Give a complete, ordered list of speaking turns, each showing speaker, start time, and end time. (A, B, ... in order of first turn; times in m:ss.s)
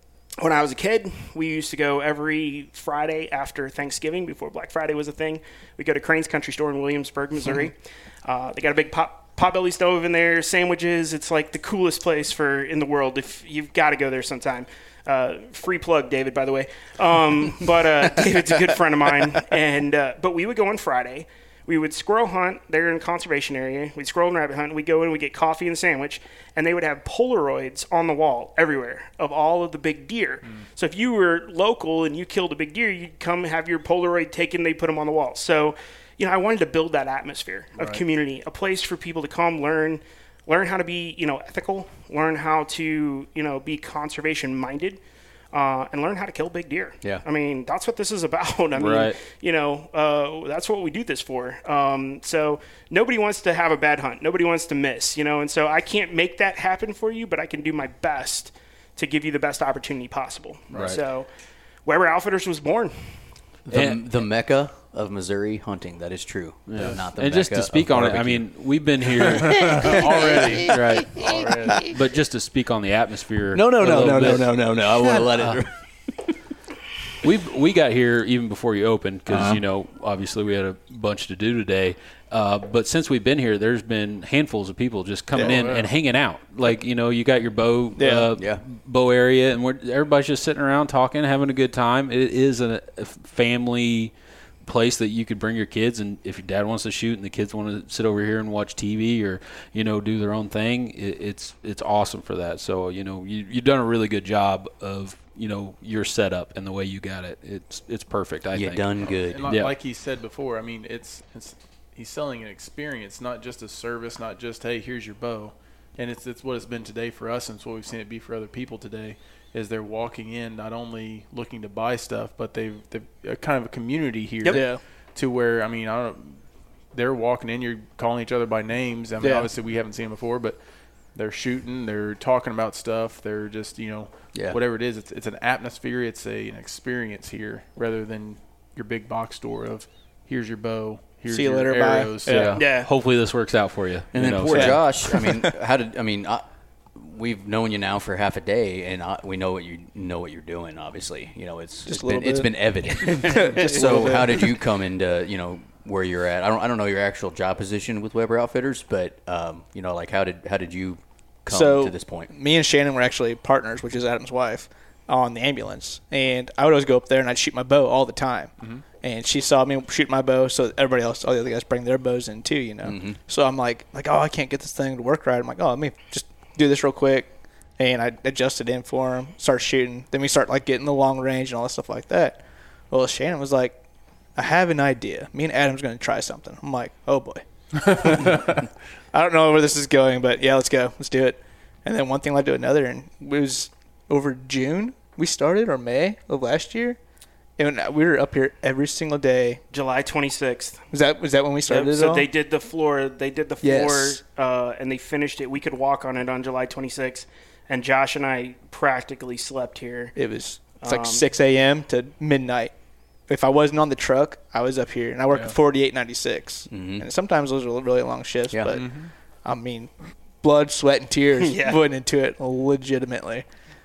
0:00.4-0:45.0 A
0:37.8-0:38.0 B
0:45.5-1:01.3 A
0:48.8-0:49.2 C
1:00.7-1:01.0 C
1:01.8-1:03.2 A
1:03.7-1:08.5 D
1:03.7-1:04.1 C
1:06.7-1:15.6 C
1:09.0-1:10.6 D
1:09.4-1:11.9 B
1:13.5-1:16.4 D
1:17.2-1:34.1 C
1:19.3-1:19.6 D
1:25.4-1:25.9 B
1:28.0-1:28.3 E
1:28.3-1:28.6 D
1:34.6-1:48.9 C
1:48.5-1:49.5 D
1:49.0-2:22.7 B
1:49.5-1:49.7 C
2:04.5-2:04.8 E
2:09.2-2:09.5 E
2:14.3-2:14.6 D
2:21.3-2:22.6 E
2:22.3-2:24.9 C
2:22.5-2:22.9 A
2:24.1-2:42.3 D
2:24.5-2:25.6 E
2:31.9-2:34.6 E
2:41.5-3:03.8 E
2:48.6-2:48.8 B
2:52.8-2:53.2 D
3:04.4-3:08.4 E
3:07.8-3:08.6 B
3:09.1-3:17.0 E
3:17.6-3:19.6 E
3:19.7-3:20.8 A
3:20.9-3:22.3 E
3:21.7-3:30.2 A
3:23.6-3:24.2 E
3:30.2-3:32.7 E
3:30.8-3:31.2 A
3:33.3-3:43.5 E
3:35.3-3:35.6 B
3:36.7-3:37.1 D
3:38.5-3:38.8 D
3:38.7-3:39.1 B
3:41.4-3:41.8 A